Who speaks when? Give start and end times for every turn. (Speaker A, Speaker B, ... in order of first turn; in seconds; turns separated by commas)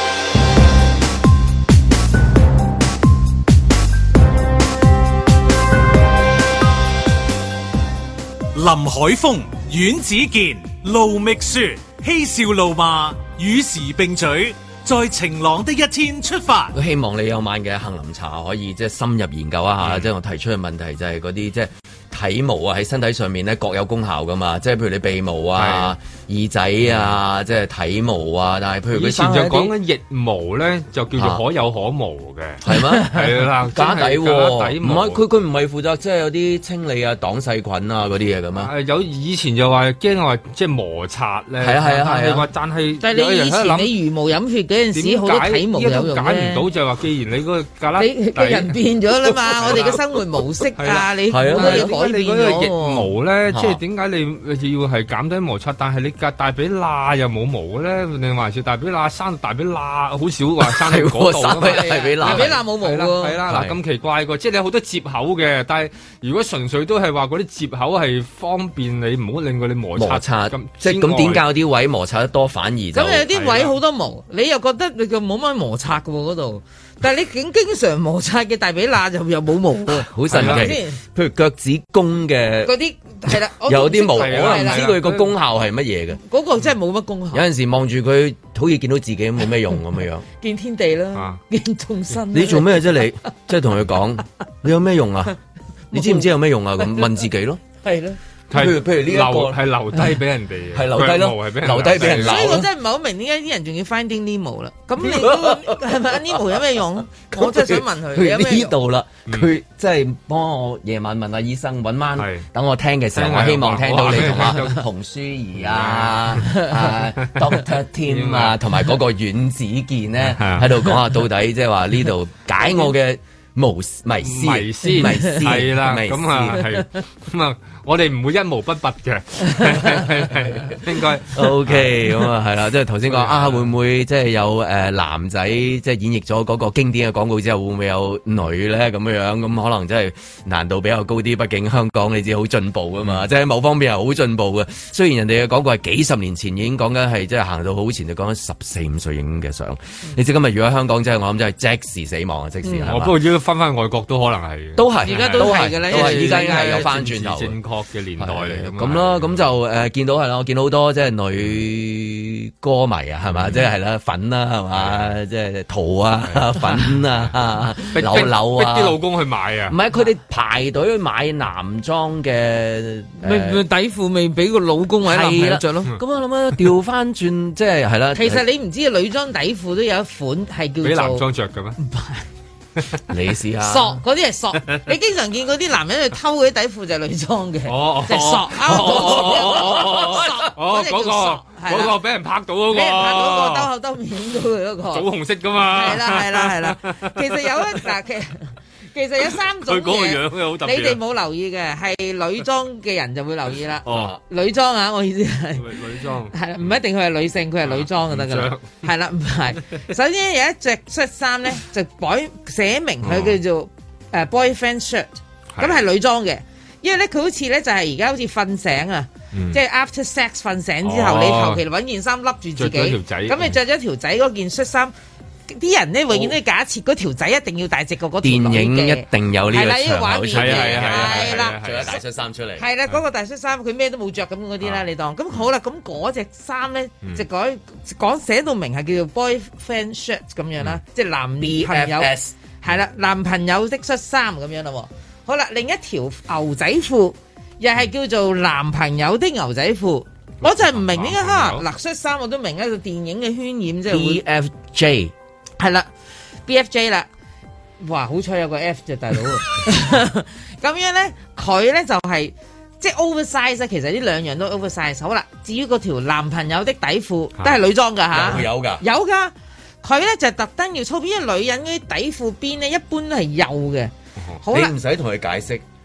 Speaker A: 8.5-16.7, Speaker B: 16.7-29.7, Speaker C: 19.8-20.1, Speaker C: 25.6-25.9, Speaker C: 26.9-27.1, Speaker C: 28.9-35.2, Speaker B: 31.2-31.4, Speaker B: 32.6-38.7, Speaker C: 38.6-43.9, Speaker B: 41.6-42.5, Speaker D: 43.0-46.6, Speaker C: 44.9-48.8, Speaker D: 48.0-53.1, Speaker B: 49.5-50.0, Speaker C: 49.6-50.0, Speaker C: 50.8-71.5, Speaker B: 51.3-51.9, Speaker B: 53.5-53.8, Speaker B: 60.6-62.6, Speaker D: 61.6-63.4, Speaker B: 63.5-63.8, Speaker B: 70.0-73.3, Speaker D: 72.9-81.0, Speaker C: 73.3-73.8, Speaker B: 79.9-82.7, Speaker C: 80.3-80.8, Speaker D: 82.7-84.8, Speaker B: 83.6-86.2, Speaker C: 84.0-85.3, Speaker D: 86.2-87.5, Speaker B: 87.3-90.2, Speaker D: 90.4-93.1, Speaker C: 91.2-91.4, Speaker B: 92.3-95.3, Speaker D: 95.9-97.1, Speaker B: 95.9-97.6, Speaker D: 97.8-98.2, Speaker C: 98.5-102.6, Speaker B: 98.5-99.6, Speaker B: 100.7-102.7, Speaker D: 102.0-108.7, Speaker B: 105.0-106.1, Speaker B: 107.3-126.6, Speaker C: 112.2-112.5, Speaker C: 113.2-114.8, Speaker C: 115.6-116.5, Speaker C: 118.0-118.6, Speaker C: 120.2-120.7, Speaker C: 124.2-132.2, Speaker B: 131.3-153.2, Speaker C: 133.1-133.7, Speaker C: 152.9-159.4, Speaker B: 154.8-157.6, Speaker D: 155.0-156.9, Speaker B: 158.2-169.0, Speaker C: 163.3-163.7, Speaker C: 164.8-165.2, Speaker C: 167.9-169.8, Speaker B: 169.7-173.6, Speaker D: 173.2-176.0, Speaker B: 175.0-178.4, Speaker D: 178.1-181.2, Speaker C: 180.8-181.8, Speaker D: 181.8-182.2, Speaker B: 183.1-184.0, Speaker D: 183.6-191.9, Speaker C: 187.7-193.7, Speaker B: 188.7-190.3, Speaker D: 192.7-195.1, Speaker C: 194.9-197.8, Speaker D: 195.7-205.7, Speaker C: 199.7-201.0, Speaker C: 203.9-204.2, Speaker B: 203.9-204.2, Speaker C: 205.6-206.8, Speaker D: 206.3-224.9, Speaker C: 207.6-208.8, Speaker C: 213.0-213.3, Speaker C: 219.3-219.6, Speaker C: 220.8-221.6, Speaker C: 222.6-223.6, Speaker D: 225.5-231.6, Speaker B: 228.2-232.7, Speaker C: 230.3-232.0, Speaker D: 232.6-254.2, Speaker B: 241.4-242.3, Speaker C: 250.4-251.6, Speaker B: 253.9-255.1, Speaker D: 255.6-255.9, Speaker D: 256.5-257.1, Speaker D: 257.8-273.9, Speaker B: 268.1-268.8, Speaker D: 274.4-274.7, Speaker B: 274.5-275.6